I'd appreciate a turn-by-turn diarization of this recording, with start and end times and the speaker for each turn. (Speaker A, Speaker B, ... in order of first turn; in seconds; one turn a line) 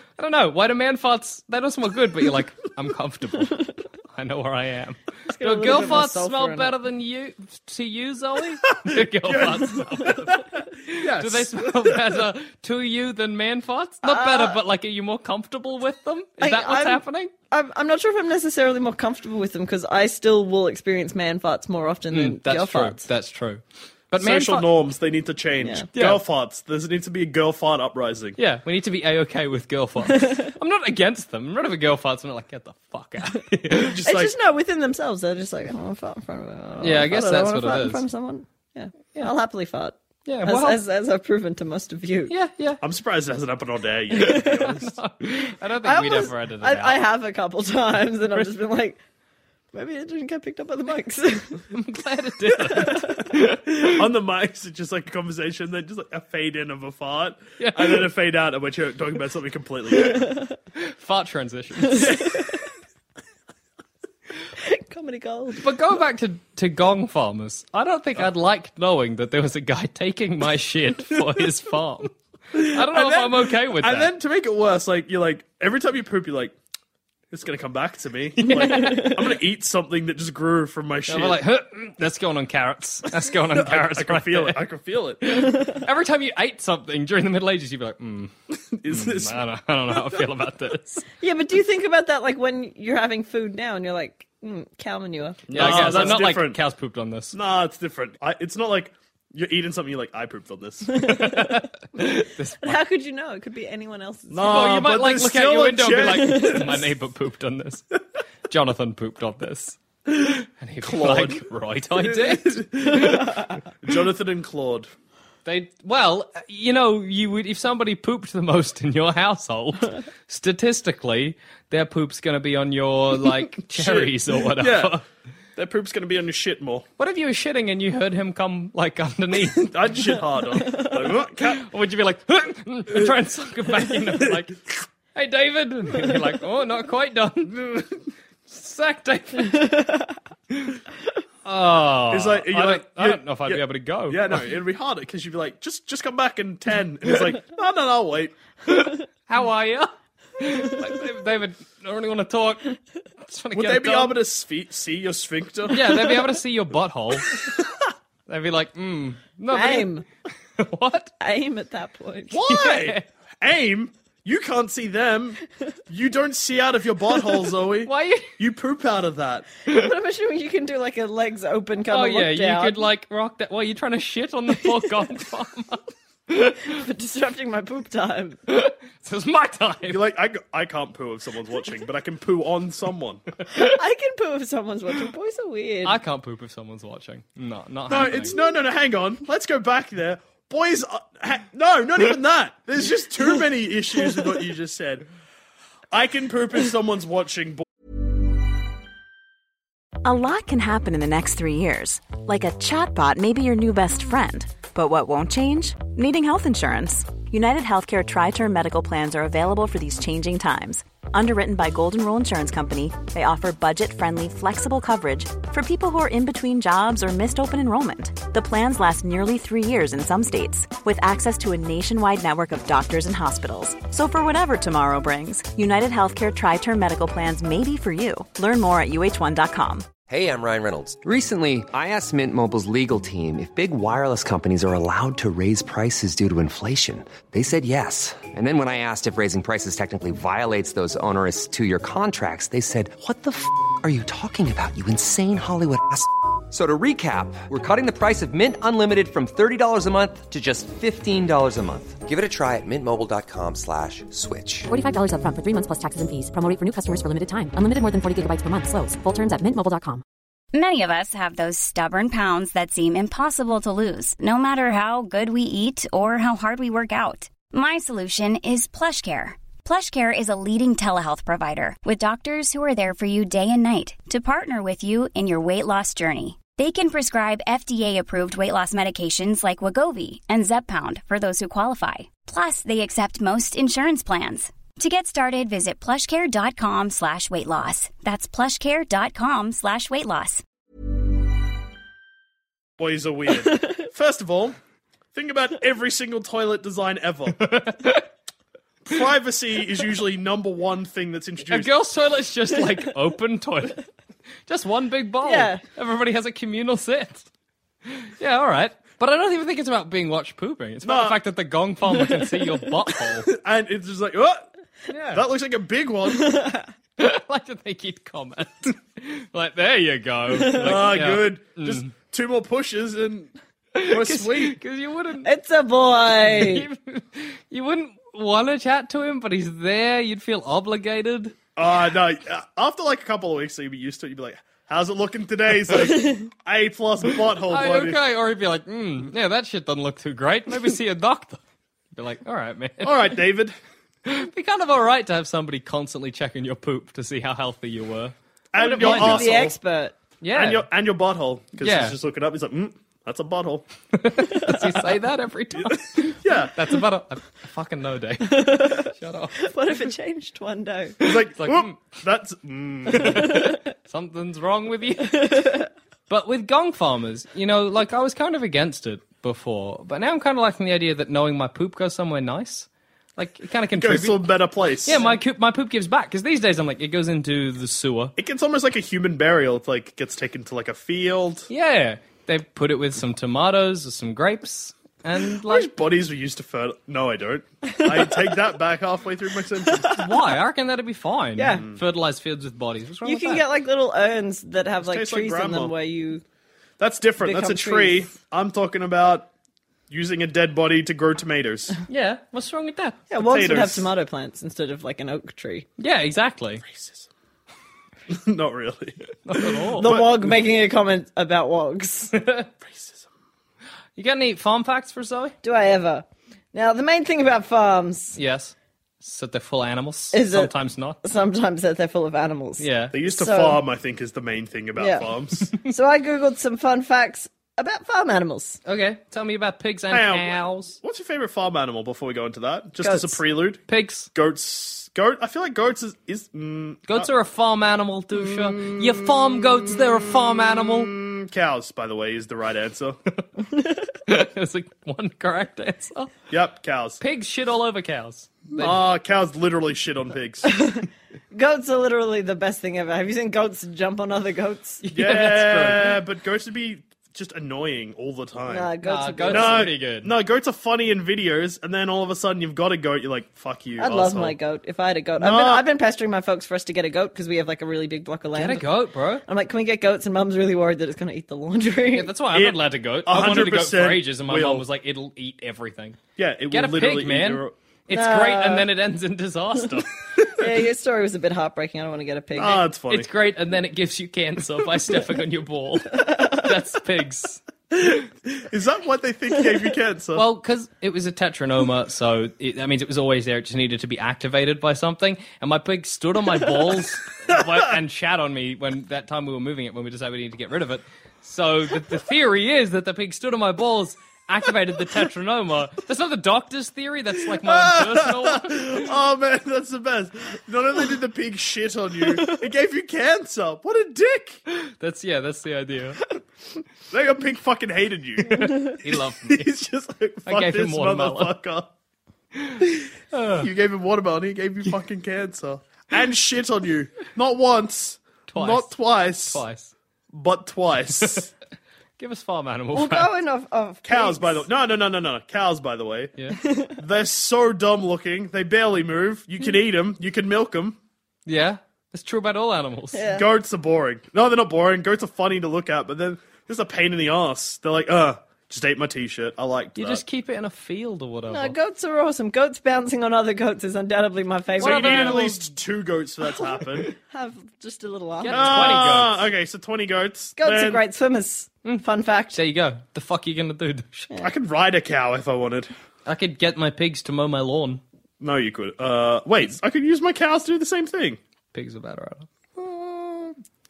Speaker A: 0.2-17.3
Speaker B: 5.3-6.7
Speaker C: 9.3-10.2
Speaker C: 11.0-12.2
Speaker B: 14.0-14.5
Speaker B: 16.4-23.1
Speaker A: 22.1-24.7
Speaker C: 24.1-28.4
Speaker A: 25.9-26.2
Speaker A: 28.4-34.0
Speaker B: 30.1-30.5
Speaker C: 33.8-34.3
Speaker B: 34.0-42.3
Speaker A: 36.8-38.0
Speaker A: 40.2-40.8
Speaker A: 42.3-42.8
Speaker C: 42.8-45.0
Speaker B: 44.2-44.5
Speaker A: 44.3-47.0
Speaker B: 45.8-49.0
Speaker B: 49.7-51.6
Speaker A: 51.7-54.1
Speaker B: 52.7-53.2
Speaker C: 53.8-60.2
Speaker A: 57.6-58.1
Speaker A: 60.7-62.4
Speaker B: 61.9-62.4
Speaker B: 64.6-65.7
Speaker A: 65.6-74.1
Speaker C: 72.5-76.5
Speaker C: 77.3-81.4
Speaker A: 78.4-79.3
Speaker B: 78.7-79.1
Speaker A: 81.1-84.6
Speaker C: 83.5-85.4
Speaker A: 85.2-88.3
Speaker C: 88.7-89.4
Speaker A: 88.9-91.0
Speaker B: 91.2-96.2
Speaker C: 95.5-96.6
Speaker A: 95.5-97.3
Speaker C: 97.3-101.0
Speaker A: 101.0-102.8
Speaker B: 101.0-104.6
Speaker C: 104.3-106.8
Speaker A: 104.4-107.8
Speaker B: 106.3-106.7
Speaker A: 108.5-113.5
Speaker C: 110.8-111.4
Speaker C: 112.1-114.9
Speaker A: 115.5-125.0
Speaker C: 123.7-125.0
Speaker C: 125.5-126.8
Speaker A: 127.0-129.7
Speaker C: 129.6-131.7
Speaker A: 131.1-134.6
Speaker A: 135.1-137.9
Speaker A: 138.5-139.9
Speaker B: 139.5-140.1
Speaker A: 140.5-140.8
Speaker A: 141.4-144.4
Speaker C: 142.1-148.3
Speaker A: 148.7-154.2
Speaker C: 153.5-155.8
Speaker A: 155.7-157.4
Speaker A: 158.3-160.0
Speaker B: 159.5-160.0
Speaker A: 160.6-161.1
Speaker B: 161.2-162.4
Speaker C: 162.3-169.4
Speaker A: 162.5-163.0
Speaker A: 167.8-168.3
Speaker A: 169.7-169.9
Speaker B: 169.7-172.8
Speaker A: 171.9-176.8
Speaker B: 176.7-178.4
Speaker A: 178.5-180.0
Speaker C: 179.9-183.2
Speaker B: 183.5-186.0
Speaker A: 185.8-188.3
Speaker C: 187.9-195.0
Speaker C: 195.9-197.6
Speaker D: 200.0-229.9
Speaker E: 230.1-254.7
Speaker F: 254.7-260.0
Speaker G: 260.5-290.4
Speaker C: 292.8-294.6
Speaker C: 295.1-297.5
Speaker A: 297.4-298.0
Speaker C: 298.8-301.7
Speaker A: 301.5-303.8
Speaker A: 304.5-307.3
Speaker B: 305.2-305.6
Speaker A: 307.9-313.3
Speaker C: 310.8-311.2
Speaker C: 313.3-314.5
Speaker A: 314.9-315.2
Speaker C: 315.1-316.4
Speaker B: 316.2-316.6
Speaker A: 317.0-321.9
Speaker C: 320.6-323.3
Speaker A: 323.7-325.3
Speaker C: 323.8-324.6
Speaker B: 325.2-326.7
Speaker A: 326.2-331.3
Speaker C: 331.6-338.0
Speaker A: 337.5-341.4
Speaker A: 341.9-343.1
Speaker C: 342.8-343.6
Speaker A: 344.0-349.4
Speaker C: 348.5-349.6
Speaker B: 348.6-350.0
Speaker A: 350.2-350.7
Speaker C: 350.3-353.7
Speaker A: 351.6-352.0
Speaker A: 353.9-359.5
Speaker C: 356.1-356.6
Speaker B: 358.2-361.0
Speaker C: 361.0-363.3
Speaker A: 361.0-361.9
Speaker A: 362.9-365.6
Speaker B: 363.1-363.5
Speaker B: 365.1-365.7
Speaker A: 366.1-374.3
Speaker C: 373.7-375.0
Speaker A: 374.8-378.1
Speaker C: 378.2-381.5
Speaker A: 381.5-385.7
Speaker C: 385.4-389.9
Speaker B: 387.7-388.1
Speaker A: 389.9-393.4
Speaker B: 391.4-391.6
Speaker B: 393.0-396.2
Speaker C: 394.8-395.7
Speaker C: 396.8-399.3
Speaker B: 397.2-398.1
Speaker C: 399.9-401.7
Speaker A: 401.9-403.1
Speaker B: 403.1-405.6
Speaker C: 403.2-403.9
Speaker A: 405.8-406.6
Speaker C: 406.6-407.1
Speaker C: 408.1-410.3
Speaker A: 409.2-409.9
Speaker B: 409.8-412.1
Speaker A: 412.1-412.5
Speaker C: 412.6-413.1
Speaker A: 413.9-415.3
Speaker B: 415.4-418.2
Speaker A: 418.1-421.0
Speaker B: 420.1-423.6
Speaker A: 422.6-422.9
Speaker C: 422.9-425.5
Speaker B: 424.8-425.1
Speaker B: 425.6-428.6
Speaker A: 428.6-430.8
Speaker C: 429.9-433.6
Speaker B: 432.8-433.1
Speaker A: 433.7-434.1
Speaker C: 434.1-437.1
Speaker A: 436.9-440.9
Speaker C: 438.4-438.9
Speaker C: 440.6-443.0
Speaker A: 444.1-446.1
Speaker C: 446.3-447.0
Speaker A: 447.0-448.8
Speaker C: 448.5-450.6
Speaker B: 450.4-454.8
Speaker A: 454.8-456.0
Speaker C: 454.9-458.7
Speaker B: 458.5-459.7
Speaker A: 458.8-460.1
Speaker C: 459.3-464.4
Speaker B: 463.8-468.7
Speaker C: 465.2-465.6
Speaker A: 468.3-469.2
Speaker B: 469.2-472.1
Speaker A: 471.9-479.9
Speaker C: 472.3-474.6
Speaker C: 476.2-477.5
Speaker B: 477.9-478.7
Speaker B: 480.4-482.6
Speaker C: 482.4-483.1
Speaker A: 482.9-487.9
Speaker B: 486.0-486.4
Speaker C: 488.3-490.2
Speaker A: 490.1-508.9
Speaker C: 507.4-514.4
Speaker A: 514.5-516.1
Speaker C: 516.9-521.7
Speaker A: 518.4-519.5
Speaker A: 520.3-521.3
Speaker A: 522.3-523.5
Speaker C: 523.4-529.4
Speaker A: 528.3-529.7
Speaker C: 530.1-531.3
Speaker A: 532.0-533.1
Speaker B: 532.7-534.4
Speaker C: 533.8-536.1
Speaker B: 536.4-536.7
Speaker C: 536.7-540.8
Speaker A: 541.2-543.1
Speaker B: 542.9-543.2
Speaker C: 543.1-550.0
Speaker A: 549.8-551.5
Speaker B: 551.3-555.3
Speaker A: 554.6-555.4
Speaker C: 554.6-556.9
Speaker B: 556.9-558.9
Speaker A: 558.2-559.2
Speaker C: 558.3-560.8
Speaker B: 560.4-562.4
Speaker A: 561.6-564.1
Speaker C: 564.2-565.7
Speaker A: 566.0-567.8
Speaker C: 568.2-571.2
Speaker A: 571.5-572.3